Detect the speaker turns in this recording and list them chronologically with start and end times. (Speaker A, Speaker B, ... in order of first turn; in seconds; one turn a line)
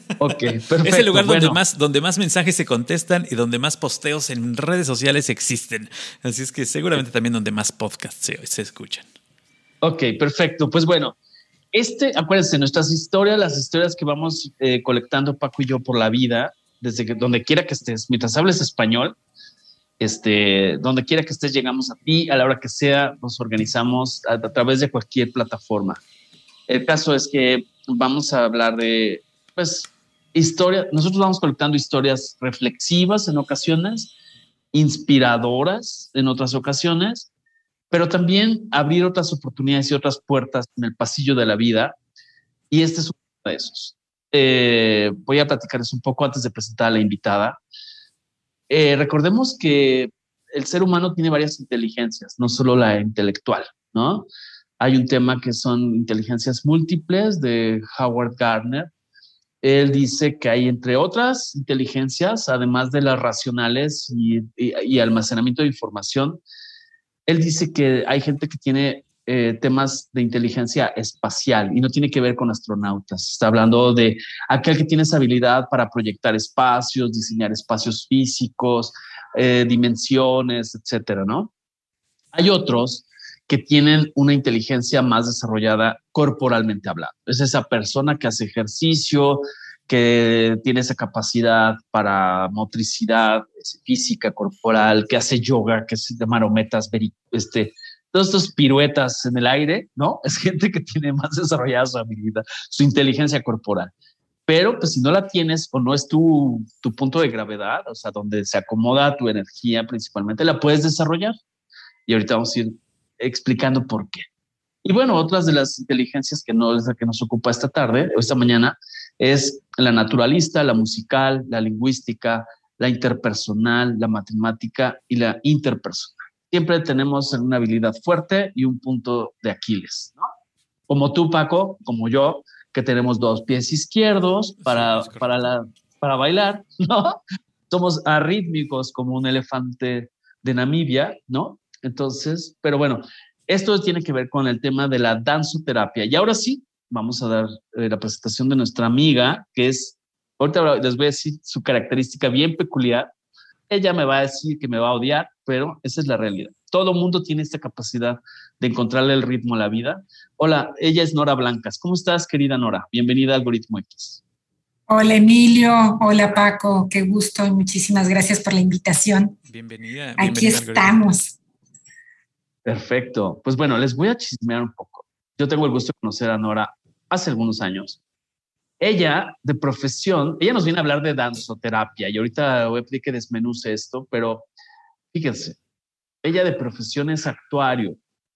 Speaker A: 0.2-1.6
Speaker B: 0.8-9.1
Speaker A: 9.8-11.2
Speaker A: 11.7-19.2
Speaker A: 20.0-26.0
Speaker A: 26.7-34.1
Speaker A: 34.7-37.3
Speaker A: 37.9-42.0
Speaker A: 42.7-47.6
Speaker A: 48.7-54.3
Speaker A: 54.8-58.9
Speaker A: 59.6-66.4
Speaker A: 67.3-81.5
Speaker A: 82.3-103.9
Speaker A: 104.5-111.4
Speaker A: 112.1-114.2
Speaker A: 114.8-130.3
Speaker A: 130.9-137.2
Speaker B: 134.6-135.4
Speaker A: 137.7-153.1
Speaker A: 153.7-164.2
Speaker C: 164.9-169.4
Speaker B: 169.5-171.1
Speaker C: 170.2-171.4
Speaker A: 172.7-178.0
Speaker A: 178.8-184.5
Speaker A: 185.1-185.6
Speaker A: 186.2-188.0